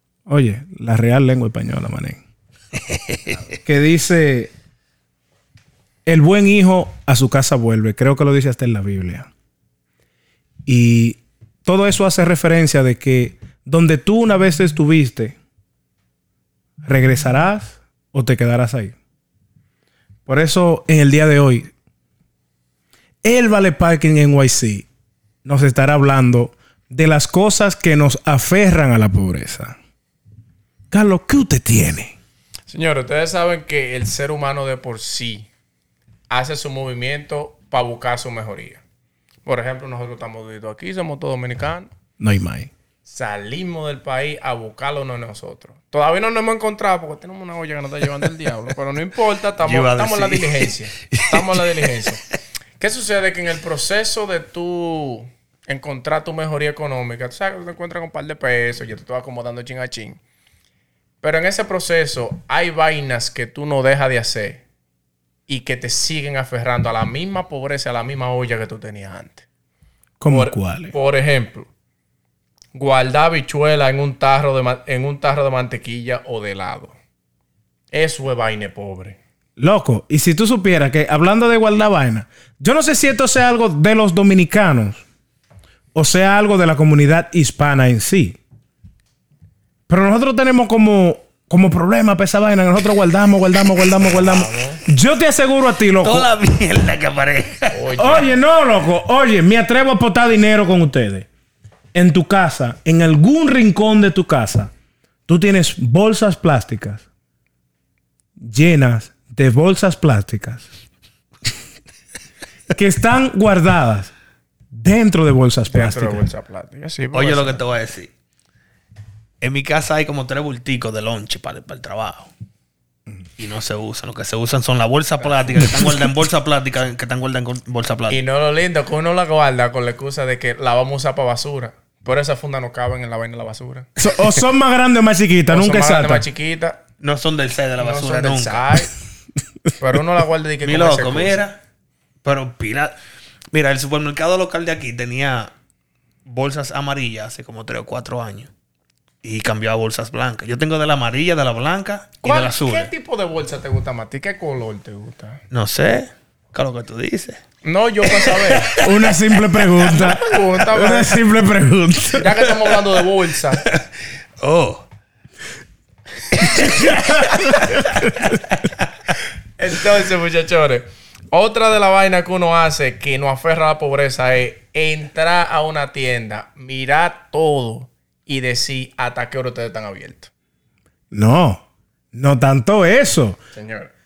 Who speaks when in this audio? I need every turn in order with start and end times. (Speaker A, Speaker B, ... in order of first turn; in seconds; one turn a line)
Speaker A: 0.3-2.2
Speaker B: 2.8-3.4
Speaker A: 3.6-4.5
Speaker A: 6.1-9.3
Speaker A: 10.7-15.4
Speaker A: 16.8-18.9
Speaker A: 20.3-21.7
Speaker A: 23.2-24.9
Speaker A: 25.4-29.8
Speaker A: 30.9-32.1
Speaker C: 32.7-35.5
Speaker C: 36.3-38.8
Speaker C: 39.5-41.9
Speaker A: 42.2-42.7
Speaker C: 43.1-52.2
Speaker B: 49.6-52.1
Speaker C: 52.8-60.2
Speaker C: 61.2-64.6
Speaker C: 65.5-69.4
Speaker A: 70.2-71.0
Speaker C: 70.3-71.7
Speaker C: 72.8-77.0
Speaker C: 77.9-79.2
Speaker A: 79.6-85.0
Speaker A: 86.0-88.4
Speaker A: 89.9-96.3
Speaker C: 94.1-94.9
Speaker B: 96.0-97.9
Speaker C: 97.7-98.4
Speaker A: 98.0-101.3
Speaker A: 101.9-104.7
Speaker A: 105.3-107.0
Speaker A: 108.4-110.7
Speaker A: 112.7-114.1
Speaker A: 114.7-116.2
Speaker C: 115.7-117.7
Speaker B: 117.1-118.1
Speaker B: 119.4-122.3
Speaker B: 123.4-128.2
Speaker C: 128.1-133.9
Speaker A: 134.0-136.3
Speaker C: 135.5-136.8
Speaker B: 137.0-138.8
Speaker C: 137.8-138.9
Speaker C: 139.8-141.4
Speaker B: 140.6-141.6
Speaker B: 142.2-142.9
Speaker B: 143.5-145.5
Speaker B: 146.3-148.5
Speaker B: 149.2-152.9
Speaker C: 152.2-155.4
Speaker B: 155.5-157.4
Speaker C: 157.6-158.8
Speaker B: 158.0-160.1
Speaker A: 158.8-162.5
Speaker C: 159.8-161.2
Speaker C: 162.1-163.7
Speaker B: 164.4-164.8
Speaker B: 166.3-168.8
Speaker C: 169.6-180.3
Speaker A: 181.1-183.4
Speaker C: 183.6-183.9